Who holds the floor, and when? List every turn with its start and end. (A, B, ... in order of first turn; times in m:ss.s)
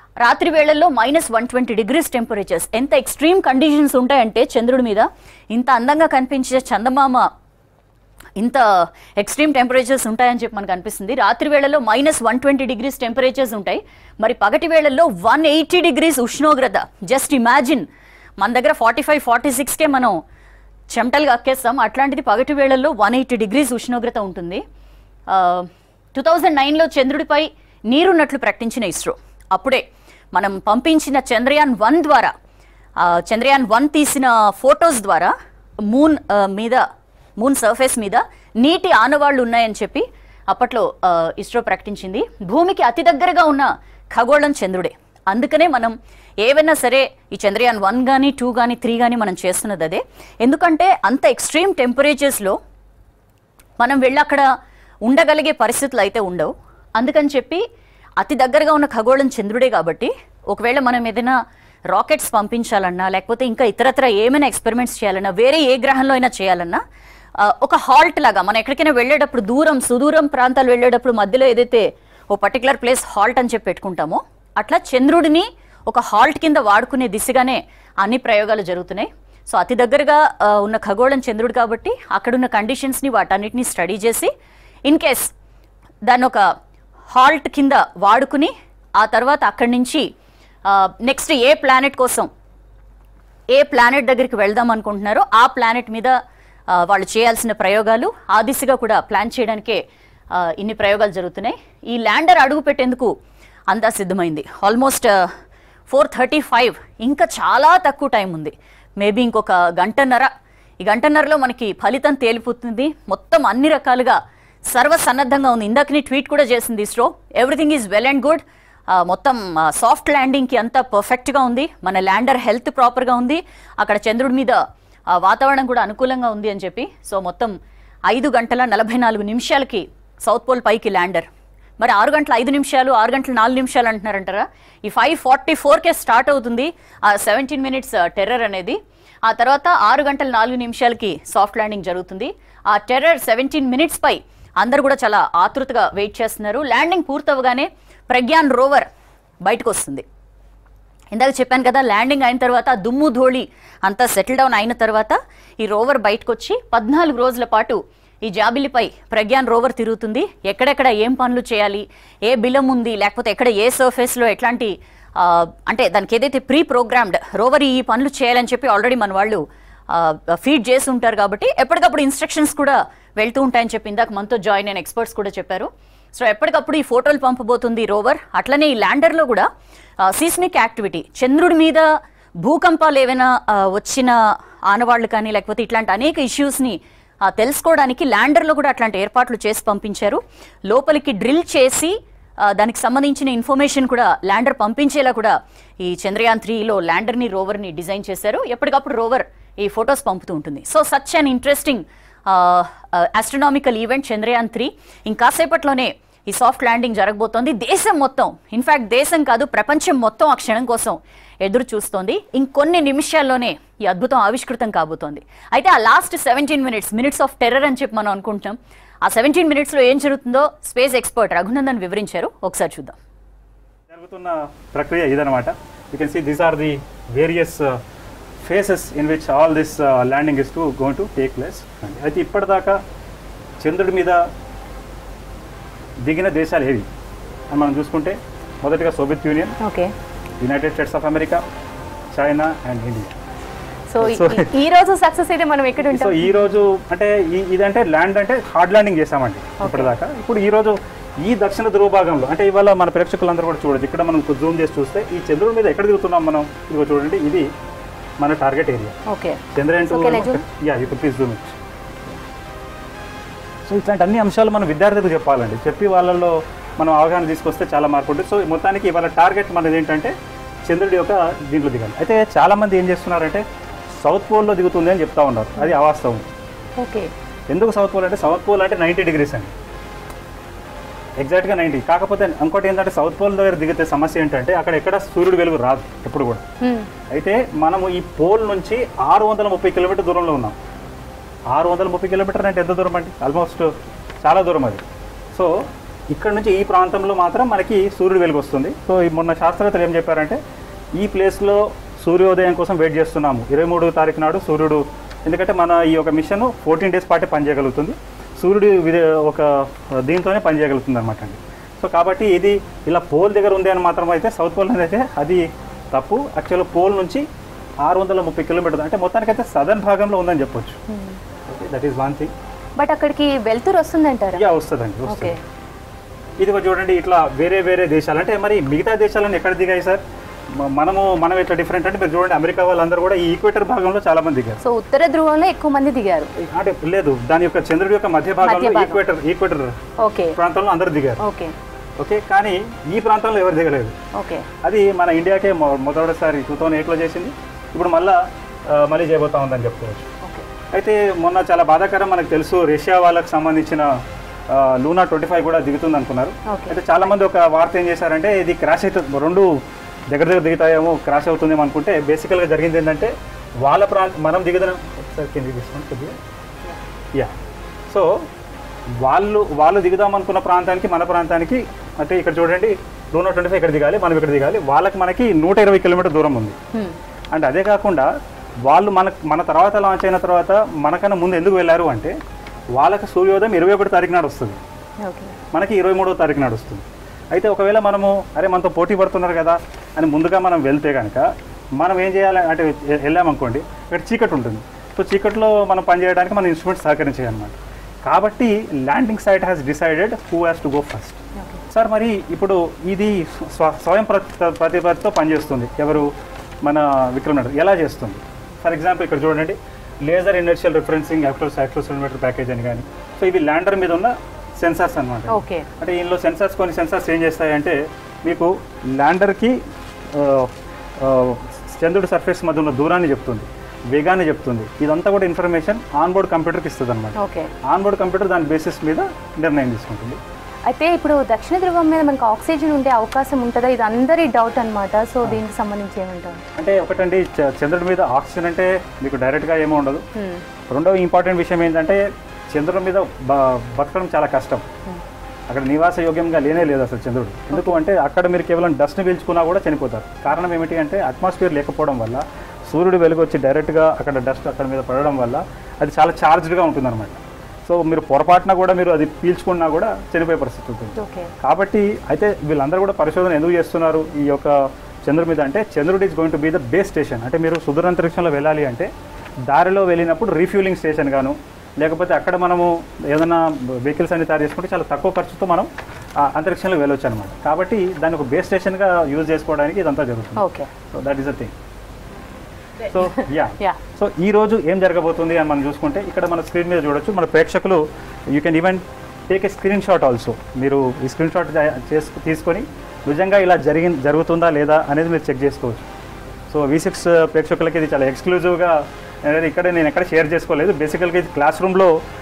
0:00.2-0:07.3 A
0:08.4-0:17.9 A
0:18.4-0:20.2 A
0:20.9-0:24.6 A
0:25.3-0:29.8 A
0:30.3-0:32.3 A
0:33.0-0:35.3 A
0:35.9-0:36.8 A
0:37.4-0:52.6 A
0:53.8-0:54.5 A
0:55.1-0:57.6 A
0:58.2-1:01.4 A
1:01.9-1:06.8 A
1:07.4-1:24.3 A
1:24.9-1:25.3 A
1:26.1-1:26.4 A
1:27.1-1:30.1 A
1:30.6-1:32.3 A
1:33.5-1:36.1 A
1:36.7-1:39.8 A
1:40.3-1:43.1 A
1:43.7-1:45.2 A
1:45.9-1:50.3 A
1:50.8-2:07.5 A
2:08.1-2:11.3 A
2:11.8-2:28.9 A
2:29.4-2:30.0 A
2:31.1-2:59.5 A
3:00.0-3:01.9 A
3:02.4-3:04.2 A
3:04.7-3:43.0 A
3:43.9-3:47.8 B
3:48.4-3:52.8 B
3:53.6-3:54.2 B
3:56.0-3:56.9 B
3:57.5-3:59.6 B
3:59.6-3:59.9 C
4:00.4-4:01.4 B
4:02.1-4:03.2 B
4:03.9-4:06.5 C
4:04.0-4:04.5 B
4:05.8-4:17.5 B
4:09.6-4:09.9 C
4:18.2-4:19.0 B
4:19.1-4:20.4 C
4:19.5-4:21.6 B
4:23.6-4:30.1 B
4:30.7-4:36.2 B
4:36.8-4:37.1 C
4:37.5-4:39.5 B
4:41.2-4:46.4 B
4:46.6-4:46.9 C
4:47.1-4:50.6 B
4:51.5-5:00.4 B
5:01.0-5:17.2 B
5:17.8-5:20.8 B
5:20.9-5:21.2 C
5:21.5-5:22.3 B
5:22.8-5:24.4 C
5:24.3-5:25.4 B
5:25.1-5:25.4 C
5:26.4-5:30.0 B
5:30.5-5:34.6 B
5:34.6-5:36.3 C
5:36.4-5:39.8 B
5:38.4-5:39.0 C
5:40.0-5:40.4 C
5:40.3-5:41.2 B
5:41.2-5:41.5 C
5:42.0-5:44.0 B
5:44.1-5:44.5 C
5:44.6-5:50.1 B
5:50.7-5:53.9 B
5:54.5-5:59.6 B
5:56.5-5:56.8 C
6:00.1-6:06.2 B
6:07.9-6:08.2 B
6:09.0-6:16.6 B
6:17.3-6:18.1 B
6:18.6-6:22.1 B
6:22.7-6:24.6 B
6:25.0-6:25.3 C
6:25.5-6:31.3 B
6:31.8-6:46.1 B
6:46.6-6:59.6 B
6:55.3-6:55.6 C
7:00.1-7:10.2 B
7:07.2-7:07.5 C
7:10.7-7:16.4 C
7:16.6-7:20.0 B
7:20.2-7:20.4 C
7:20.7-7:24.6 B
7:25.5-7:48.9 B
7:27.5-7:27.8 C
7:41.0-7:41.3 C
7:49.5-8:01.5 B
8:00.4-8:00.7 C
8:02.8-8:15.9 B
8:03.0-8:03.8 C
8:16.5-8:21.9 B